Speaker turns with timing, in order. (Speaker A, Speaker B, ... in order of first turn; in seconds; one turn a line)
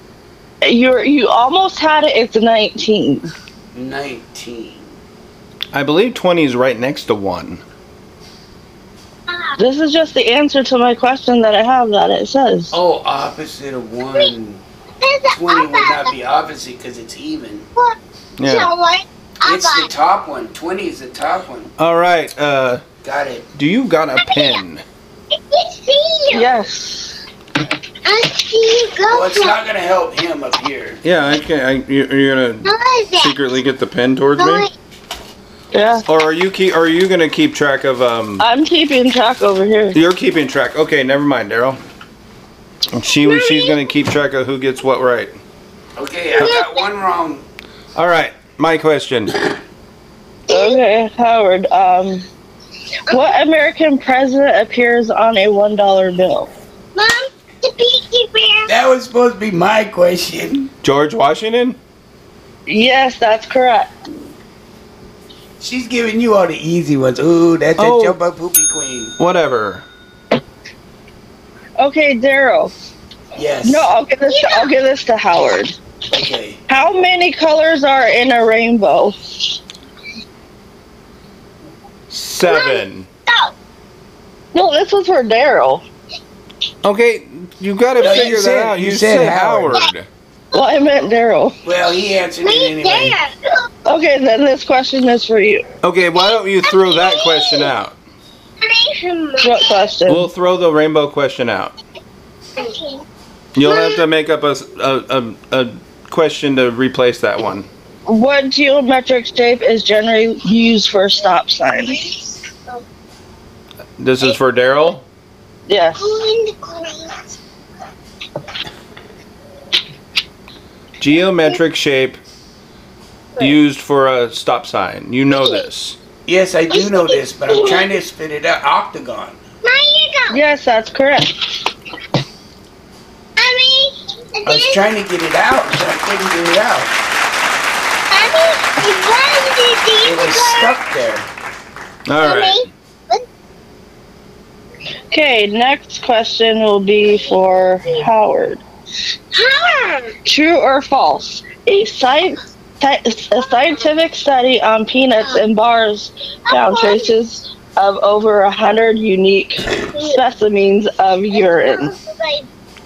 Speaker A: 0.6-3.3
Speaker B: 3.7-4.9
Speaker C: 5.7-7.6
Speaker D: 9.3-9.6
Speaker A: 9.6-12.8
Speaker B: 12.7-14.6
Speaker D: 15.0-16.0
Speaker B: 15.3-17.7
Speaker D: 17.8-19.9
Speaker C: 18.4-18.7
Speaker B: 19.4-21.7
Speaker C: 21.8-22.9
Speaker B: 23.0-23.5
Speaker C: 23.6-24.8
Speaker D: 24.2-24.6
Speaker D: 25.3-26.6
Speaker A: 26.3-27.1
Speaker D: 28.0-29.6
Speaker B: 29.1-31.0
Speaker C: 31.0-34.7
Speaker D: 32.6-33.4
Speaker D: 34.4-34.7
Speaker A: 35.7-36.0
Speaker C: 36.1-38.5
Speaker A: 38.4-40.0
Speaker C: 39.9-41.8
Speaker C: 42.9-45.4
Speaker D: 43.2-43.8
Speaker B: 46.0-47.4
Speaker D: 46.4-46.9
Speaker C: 48.0-49.5
Speaker A: 50.5-52.3
Speaker D: 50.5-50.8
Speaker A: 53.1-56.5
Speaker D: 57.0-58.7
Speaker B: 58.7-60.7
Speaker C: 60.8-61.8
Speaker A: 62.7-63.9
Speaker B: 65.6-69.2
Speaker C: 67.8-68.2
Speaker C: 69.2-69.8
Speaker A: 71.8-72.7
Speaker B: 73.3-73.9
Speaker A: 73.6-75.8
Speaker D: 74.3-74.7
Speaker B: 76.1-76.6
Speaker A: 76.7-79.6
Speaker C: 82.1-83.1
Speaker D: 82.4-83.5
Speaker A: 84.5-85.8
Speaker C: 86.8-90.1
Speaker B: 88.0-89.9
Speaker D: 90.5-90.9
Speaker A: 90.5-91.5
Speaker B: 91.6-93.2
Speaker D: 92.4-93.4
Speaker A: 93.8-95.7
Speaker C: 95.8-98.0
Speaker D: 96.2-97.7
Speaker D: 98.6-99.8
Speaker A: 99.4-100.3
Speaker C: 100.1-101.7
Speaker D: 102.6-103.0
Speaker C: 103.5-107.7
Speaker D: 103.6-104.0
Speaker A: 108.1-112.0
Speaker D: 111.7-112.4
Speaker C: 114.0-115.0
Speaker A: 115.7-116.1
Speaker D: 116.0-117.4
Speaker C: 121.0-122.2
Speaker C: 123.4-126.0
Speaker B: 126.3-129.4
Speaker D: 126.7-127.8
Speaker D: 129.6-130.4
Speaker A: 130.3-131.5
Speaker D: 133.4-134.9
Speaker B: 134.4-137.0
Speaker D: 138.1-140.7
Speaker B: 140.0-141.3
Speaker C: 142.1-142.7
Speaker D: 142.2-143.2
Speaker A: 145.1-148.6
Speaker D: 149.3-150.2
Speaker A: 150.3-161.9
Speaker D: 153.4-153.8
Speaker D: 156.5-157.1
Speaker D: 159.8-160.2
Speaker D: 161.3-162.5